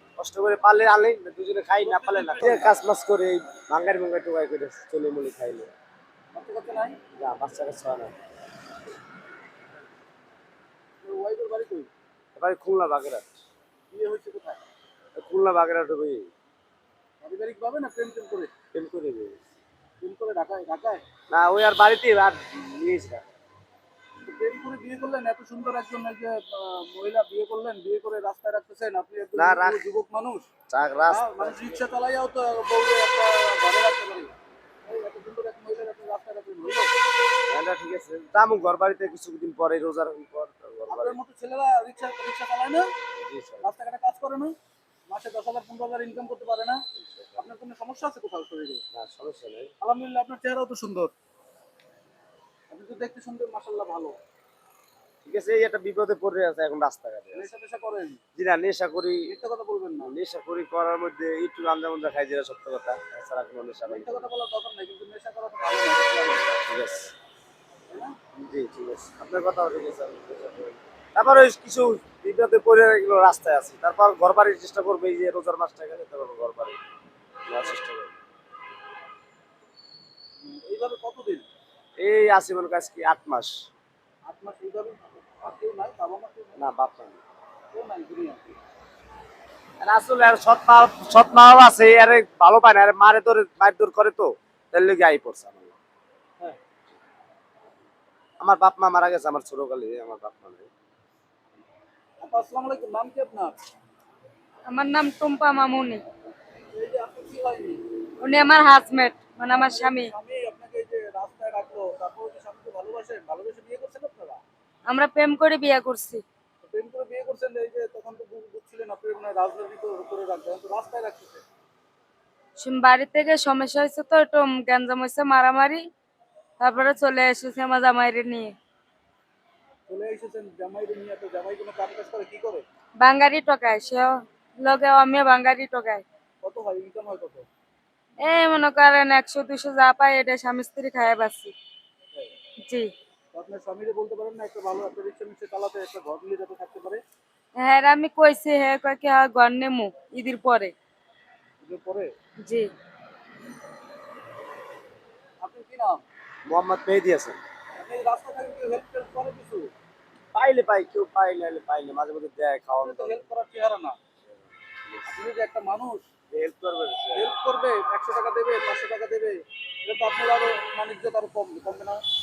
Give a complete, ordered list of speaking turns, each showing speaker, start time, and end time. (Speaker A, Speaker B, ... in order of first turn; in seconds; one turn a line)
Speaker A: 0.2-5.7
Speaker B: 1.8-2.8
Speaker B: 6.3-7.0
Speaker A: 7.2-8.1
Speaker B: 11.0-11.9
Speaker A: 12.3-13.3
Speaker B: 13.9-14.6
Speaker A: 15.2-16.3
Speaker B: 17.2-18.5
Speaker A: 18.7-19.4
Speaker B: 20.0-21.0
Speaker A: 21.3-23.3
Speaker B: 24.2-30.4
Speaker A: 29.4-29.8
Speaker A: 30.7-31.8
Speaker B: 31.1-34.3
Speaker B: 34.9-36.9
Speaker A: 37.5-41.2
Speaker B: 40.9-42.9
Speaker A: 43.2-43.7
Speaker B: 43.6-44.5
Speaker B: 45.1-46.8
Speaker A: 47.0-47.4
Speaker B: 47.4-48.8
Speaker A: 48.9-49.7
Speaker B: 49.8-51.1
Speaker B: 52.7-54.1
Speaker A: 55.2-57.5
Speaker B: 57.3-58.2
Speaker A: 58.4-59.3
Speaker B: 59.3-60.1
Speaker A: 60.0-64.3
Speaker B: 63.9-66.5
Speaker A: 66.6-67.1
Speaker B: 67.9-68.1
Speaker A: 68.4-76.8
Speaker A: 77.5-78.2
Speaker B: 80.4-81.5
Speaker A: 82.0-83.5
Speaker B: 84.2-86.6
Speaker A: 86.6-87.2
Speaker B: 87.7-88.5
Speaker A: 89.8-95.7
Speaker A: 98.4-100.7
Speaker B: 102.2-103.5
Speaker C: 104.7-106.0
Speaker B: 106.7-107.8
Speaker C: 108.2-110.1
Speaker B: 109.5-114.4
Speaker C: 114.9-116.2
Speaker B: 116.6-121.4
Speaker C: 122.6-125.8
Speaker C: 126.6-128.5
Speaker B: 129.9-132.6
Speaker C: 133.0-136.0
Speaker B: 136.4-137.4
Speaker C: 138.2-141.5
Speaker B: 143.3-147.0
Speaker C: 147.6-150.7
Speaker B: 151.6-152.1
Speaker C: 152.4-152.7
Speaker B: 155.4-156.0
Speaker A: 156.5-157.4
Speaker B: 157.8-159.7
Speaker A: 160.3-163.2
Speaker B: 162.8-163.9
Speaker B: 165.1-166.0
Speaker A: 166.3-167.3
Speaker B: 167.1-172.0